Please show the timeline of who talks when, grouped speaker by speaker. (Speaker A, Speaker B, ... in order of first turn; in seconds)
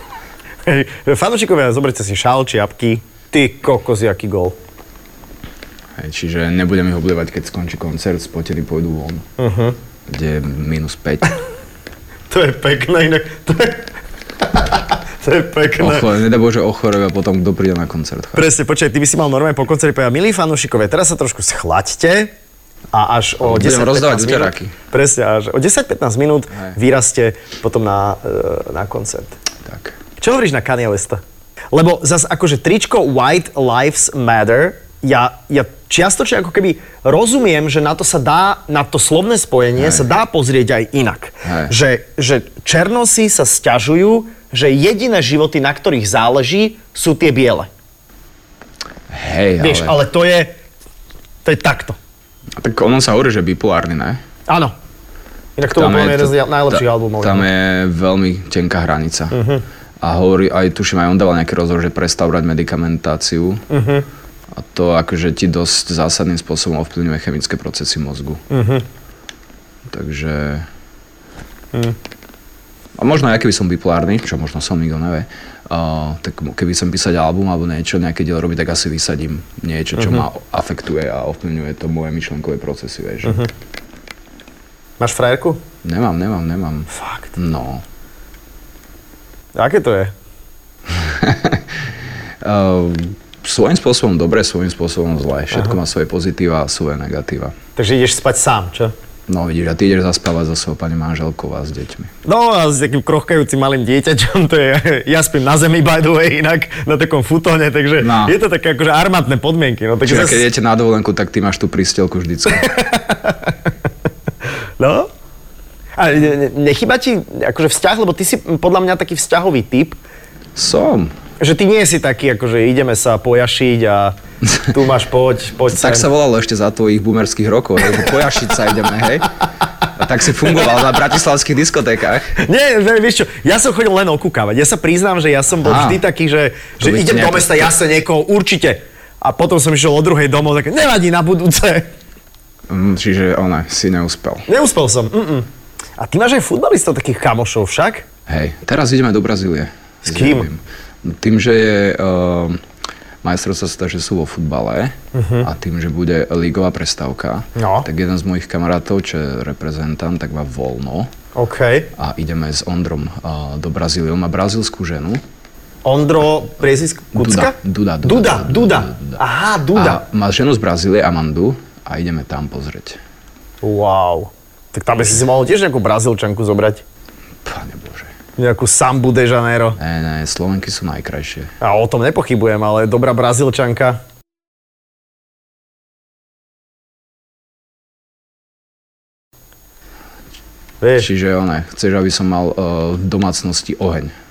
Speaker A: 0.7-4.5, 9.4-9.8, 12.3-13.9, 14.4-16.1, 18.3-22.3, 22.9-29.3, 30.2-47.7, 49.6-50.5, 51.4-52.0, 54.5-54.7, 55.6-57.5, 59.3-59.6, 63.7-64.0, 68.5-68.8, 80.0-80.2, 85.0-85.6, 86.9-87.3, 89.5-90.1, 97.8-98.9, 102.2-110.4, 112.6-113.5, 114.8-115.1, 116.0-120.0, 121.4-126.1, 132.4-141.9, 144.5-148.0, 150.0-150.5, 155.1-155.5, 157.6-157.9, 161.3-161.9, 165.8-170.0, 173.6-176.8, 178.4-179.8, 181.6-184.0, 190.8-191.1
Speaker B: 6.0-9.2, 10.1-11.4, 15.8-18.5, 23.4-24.7, 29.6-29.9, 39.8-40.0, 41.4-41.7, 49.1-50.0, 52.6-54.2, 55.7-59.3, 60.0-63.6, 64.5-68.4, 69.8-70.7, 73.0-83.4, 85.8-87.8, 90.9-91.7, 92.4-97.5, 99.3-102.1, 108.0-108.4, 110.0-112.7, 120.5-121.1, 125.7-129.3, 129.8-132.3, 135.6-136.0, 136.8-137.7, 142.7-144.4, 148.3-152.6, 153.2-161.1, 161.9-165.2, 167.1-169.2, 169.7-173.0, 177.4-178.1, 179.8-181.5, 191.0-194.1